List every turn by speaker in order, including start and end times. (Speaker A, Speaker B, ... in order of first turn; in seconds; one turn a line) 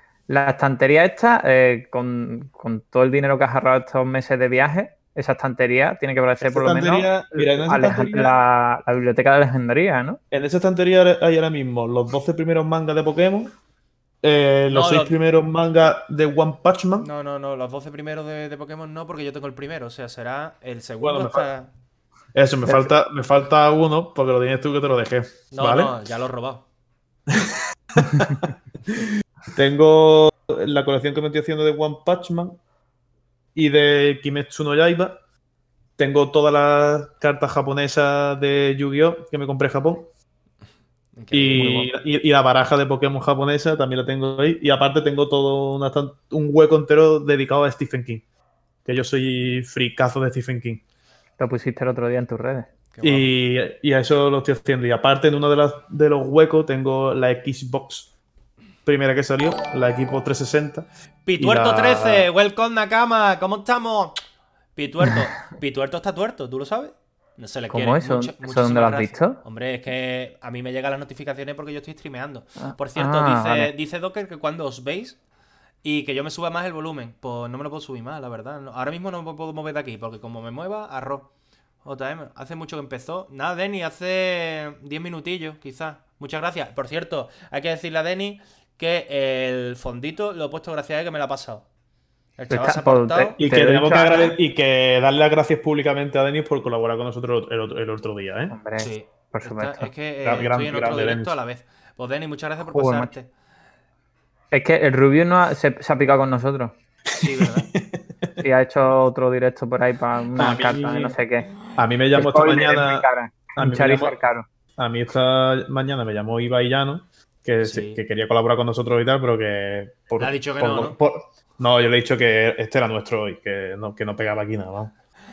Speaker A: 0.3-10.2
Speaker B: 6.4-8.3
Speaker B: 10.3-13.5
Speaker B: 14.2-17.1
Speaker C: 14.7-15.2
Speaker C: 17.0-21.7
Speaker B: 21.0-21.5
Speaker B: 22.3-25.9
Speaker C: 25.5-26.6
Speaker B: 27.3-32.6
Speaker B: 33.5-35.2
Speaker B: 36.0-40.1
Speaker C: 41.2-41.9
Speaker B: 41.3-48.2
Speaker B: 48.9-50.8
Speaker A: 51.4-52.7
Speaker C: 52.9-53.3
Speaker B: 53.0-58.1
Speaker B: 58.9-62.3
Speaker C: 61.3-64.2
Speaker C: 64.8-75.2
Speaker A: 67.7-69.4
Speaker A: 72.6-73.7
Speaker C: 75.8-81.3
Speaker C: 81.8-91.7
Speaker C: 92.4-93.4
Speaker A: 92.5-94.4
Speaker B: 93.4-98.6
Speaker A: 98.5-99.9
Speaker C: 98.8-103.3
Speaker B: 100.2-101.4
Speaker A: 102.6-103.1
Speaker A: 104.5-106.8
Speaker C: 107.2-107.7
Speaker B: 107.2-108.4
Speaker A: 108.4-111.5
Speaker B: 110.3-111.2
Speaker B: 111.8-114.2
Speaker A: 112.1-114.5
Speaker B: 114.8-124.9
Speaker C: 117.6-118.0
Speaker C: 120.2-121.0